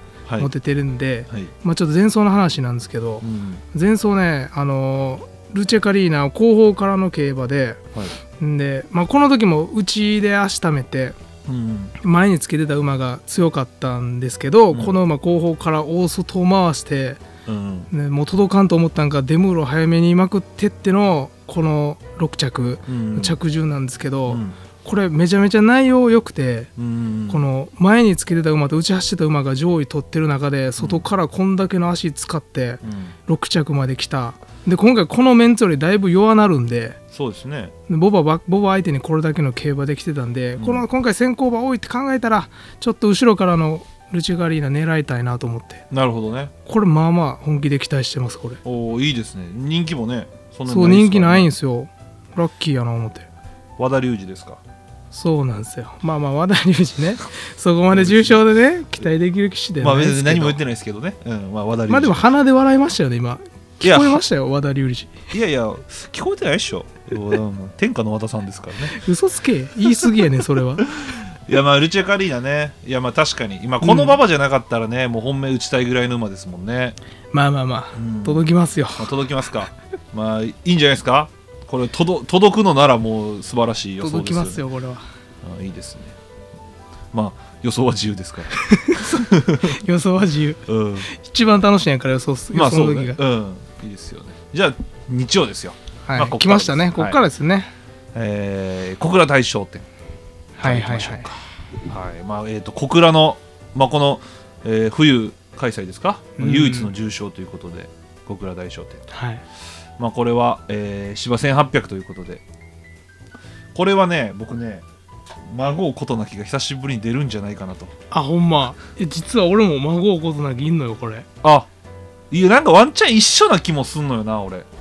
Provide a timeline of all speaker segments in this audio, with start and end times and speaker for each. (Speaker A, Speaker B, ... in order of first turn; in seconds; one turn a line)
Speaker A: 0.3-0.5
Speaker B: 0.4-7.8
Speaker A: 3.2-3.6
Speaker B: 8.4-11.2
Speaker A: 11.5-11.9
Speaker B: 12.0-17.2
Speaker A: 17.5-17.9
Speaker B: 17.9-26.7
Speaker A: 22.9-23.4
Speaker A: 24.3-24.6
Speaker A: 26.8-27.5
Speaker B: 27.3-37.0
Speaker A: 30.8-31.1
Speaker A: 32.8-33.1
Speaker A: 37.1-37.7
Speaker B: 37.9-45.8
Speaker A: 40.6-40.9
Speaker A: 45.9-46.5
Speaker B: 46.7-48.6
Speaker A: 48.6-51.5
Speaker B: 50.7-53.3
Speaker A: 53.8-54.6
Speaker B: 55.1-60.6
Speaker A: 57.9-58.4
Speaker A: 59.8-62.3
Speaker B: 61.9-65.2
Speaker A: 63.8-64.2
Speaker A: 65.3-69.0
Speaker B: 68.9-70.9
Speaker A: 71.1-77.0
Speaker B: 73.8-74.2
Speaker B: 77.3-79.1
Speaker A: 78.0-78.5
Speaker A: 79.0-84.6
Speaker B: 84.0-85.0
Speaker A: 85.4-86.2
Speaker A: 87.1-89.8
Speaker B: 88.6-93.2
Speaker A: 90.7-91.1
Speaker A: 92.5-97.2
Speaker B: 96.0-97.7
Speaker A: 98.1-99.9
Speaker B: 100.6-101.3
Speaker A: 100.6-109.1
Speaker B: 106.4-106.9
Speaker B: 109.1-109.4
Speaker A: 110.0-112.4
Speaker A: 113.7-114.8
Speaker A: 115.5-117.9
Speaker B: 118.1-121.3
Speaker A: 121.4-121.7
Speaker A: 122.3-124.7